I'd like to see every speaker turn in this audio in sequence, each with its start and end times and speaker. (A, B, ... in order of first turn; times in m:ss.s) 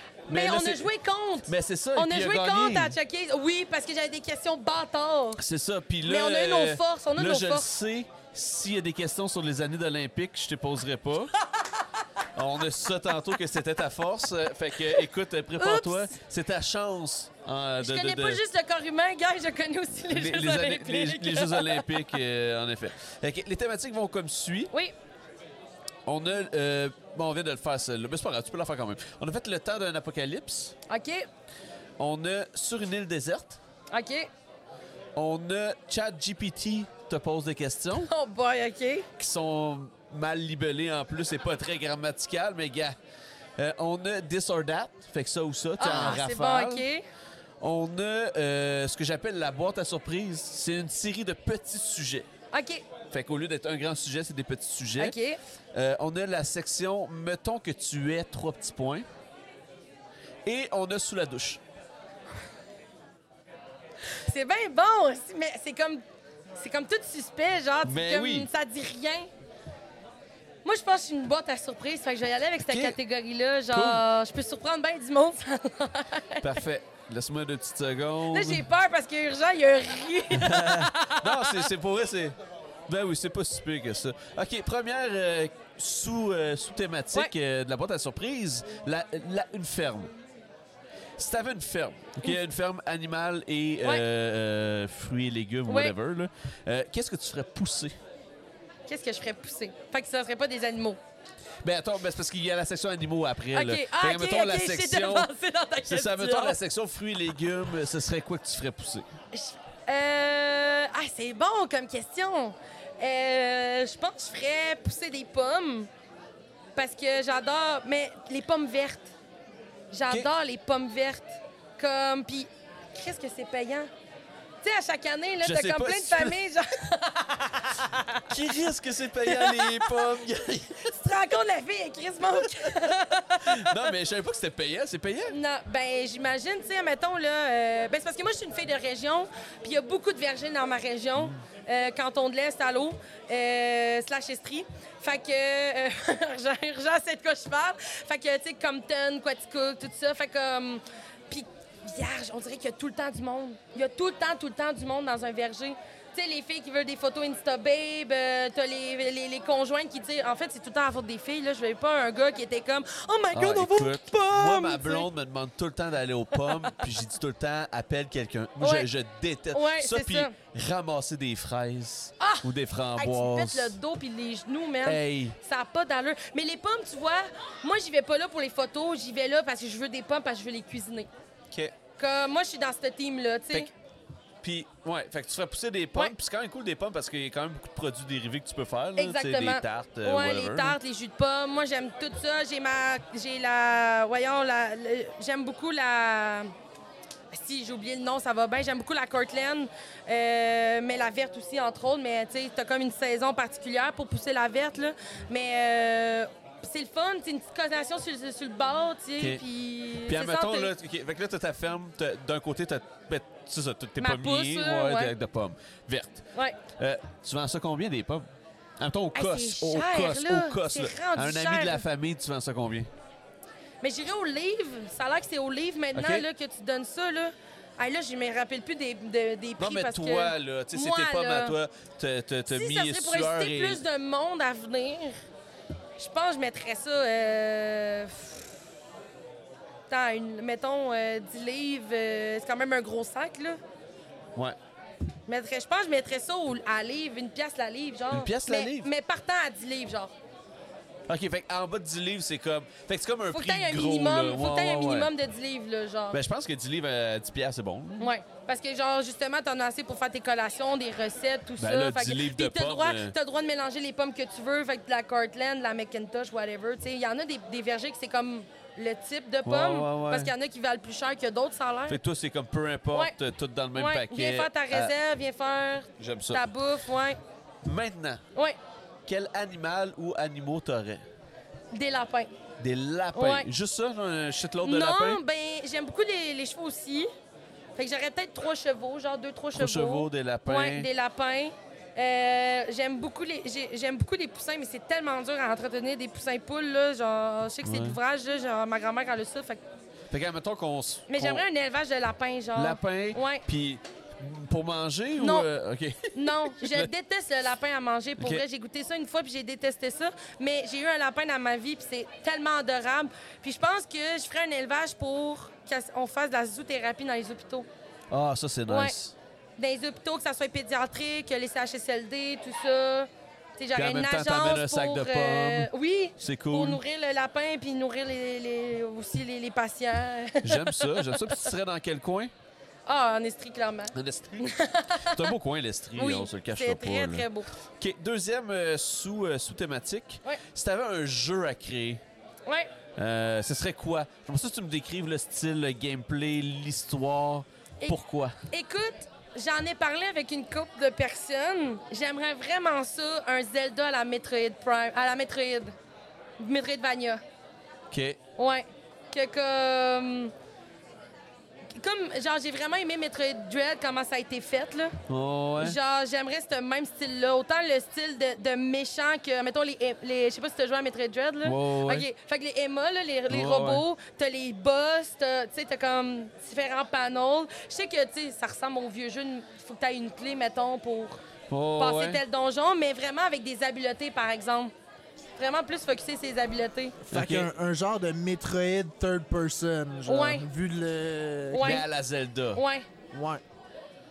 0:00.3-0:05.4 A
0:00.3-0:00.9 B
0:01.5-0:03.0 B
0:05.4-0:11.3 B
0:06.0-0:07.7 A
0:12.4-0:18.4 B
0:15.6-0:16.1 A
0:17.8-0:21.9 A
0:20.1-0:24.7 B
0:26.1-0:30.8 B
0:30.9-0:31.3 A
0:32.0-0:33.6 B
0:33.9-0:34.3 A
0:35.2-0:38.1 B
0:38.0-0:39.1 A
0:39.2-0:43.0 B
0:43.6-0:46.8 B
0:45.8-0:47.0 A
0:47.6-0:52.3 B
0:52.5-0:52.8 A
0:53.1-0:55.2 B
0:55.0-0:55.4 A
0:55.7-0:59.1 B
1:00.5-1:01.6 B
1:04.3-1:06.0 A
1:06.6-1:09.3 A
1:07.8-1:08.5 B
1:10.6-1:16.6 A
1:12.6-1:13.0 B
1:13.7-1:14.0 B
1:16.4-1:18.6 B
1:18.3-1:21.7 A
1:20.3-1:22.4 B
1:22.9-1:30.1 B
1:31.2-1:38.0 B
1:35.7-1:35.9 A
1:38.9-1:41.0 A
1:41.6-1:45.3 B
1:43.5-1:46.6 A
1:45.8-1:49.0 B
1:49.3-1:55.9 A
1:56.8-1:59.1 A
1:59.9-2:03.9 A
2:04.6-2:08.3 A
2:05.4-2:06.4 B
2:08.2-2:11.0 B
2:09.2-2:10.1 A
2:10.9-2:13.9 A
2:13.4-2:15.4 B
2:15.3-2:45.1 A
2:43.4-2:53.8 B
2:48.6-2:48.9 A
2:49.5-2:50.3 A
2:52.2-3:01.1 A
2:54.8-2:55.4 B
3:02.0-3:03.7 A
3:04.4-3:10.8 B
3:09.0-3:16.5 A
3:17.3-3:30.7 A
3:30.1-3:36.2 B
3:34.0-3:35.1 A
3:36.8-3:38.3 B
3:38.8-3:42.9 B
3:39.1-3:41.8 A
3:43.8-3:51.6 A
3:46.0-3:46.3 B
3:49.6-3:53.8 B
3:52.5-3:55.2 A
3:56.0-3:58.4 A
3:59.9-4:03.6 A
4:05.3-4:10.1 A
4:08.1-4:08.9 B
4:11.1-4:15.1 B
4:13.3-4:16.2 A
4:16.1-4:18.1 B
4:18.0-4:32.0 A
4:21.6-4:23.1 B
4:29.4-4:30.3 B
4:31.9-4:34.9 B
4:33.8-4:37.2 A
4:36.0-4:36.5 B
4:37.6-4:38.2 B
4:39.1-4:41.0 B
4:41.7-4:42.3 A
4:42.6-4:45.2 B
4:43.2-4:43.5 A
4:44.6-4:47.1 A
4:47.8-4:59.6 A
4:49.6-4:50.9 B
4:57.6-4:58.0 B
5:00.1-5:01.4 B
5:01.1-5:03.4 A
5:02.6-5:06.9 B
5:05.2-5:05.5 A
5:06.1-5:17.7 A
5:18.1-5:19.2 B
5:18.7-5:19.0 A
5:19.6-5:31.4 A
5:23.8-5:26.8 B
5:30.4-5:32.3 B
5:32.9-5:35.3 A
5:33.9-5:34.4 B
5:35.0-5:37.3 B
5:36.0-5:37.5 A
5:37.8-5:42.0 B
5:43.0-5:48.4 B
5:48.5-5:55.8 A
5:56.4-5:57.2 A
5:57.9-5:58.2 B
5:58.4-6:00.3 A
6:01.8-6:05.0 A
6:05.1-6:05.8 B
6:05.6-6:21.2 A
6:11.4-6:12.1 B
6:13.3-6:13.8 B
6:21.5-6:22.2 B
6:21.8-6:24.7 A
6:25.4-6:27.0 A
6:27.0-6:31.8 C
6:27.1-6:27.5 B
6:30.1-6:30.4 A
6:31.5-6:31.9 A
6:31.6-6:32.6 B
6:32.5-6:32.9 A
6:33.1-6:33.4 C